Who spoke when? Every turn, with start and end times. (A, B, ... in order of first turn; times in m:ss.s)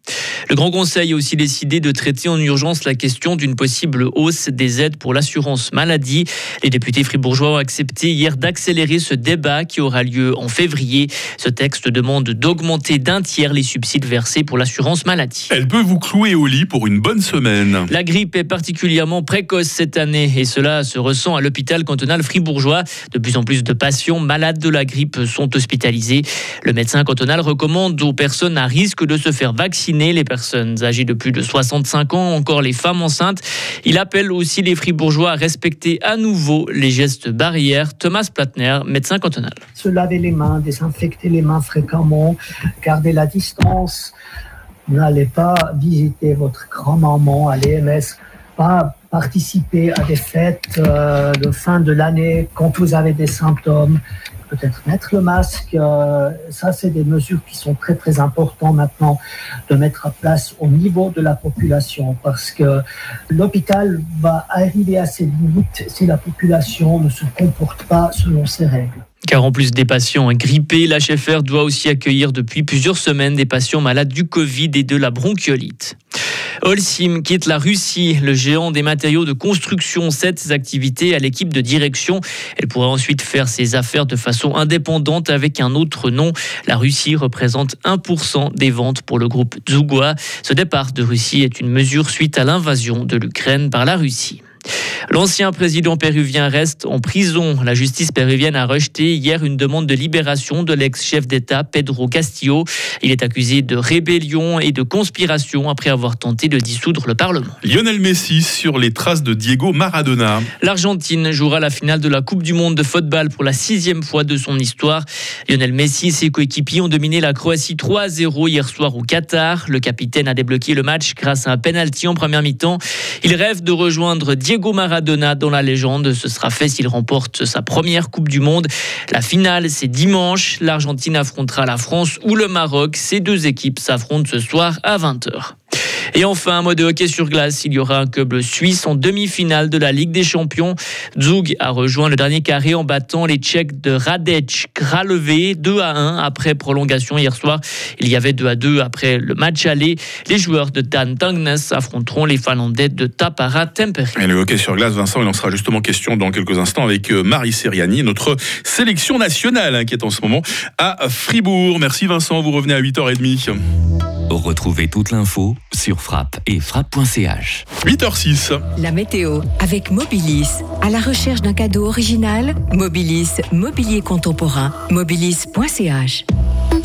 0:00.5-0:15.5 A
0:15.5-0:17.9 B
0:17.9-0:39.6 A
0:39.8-0:44.1 C
0:44.9-1:09.0 C
1:09.3-1:16.0 A
1:16.6-1:34.4 A
1:35.1-1:47.6 A
1:47.6-1:50.5 B
1:50.6-2:15.5 A
2:16.1-2:34.2 A
2:34.2-2:43.6 B
2:44.3-2:47.6 D
2:47.8-2:48.6 B
2:48.8-2:56.2 E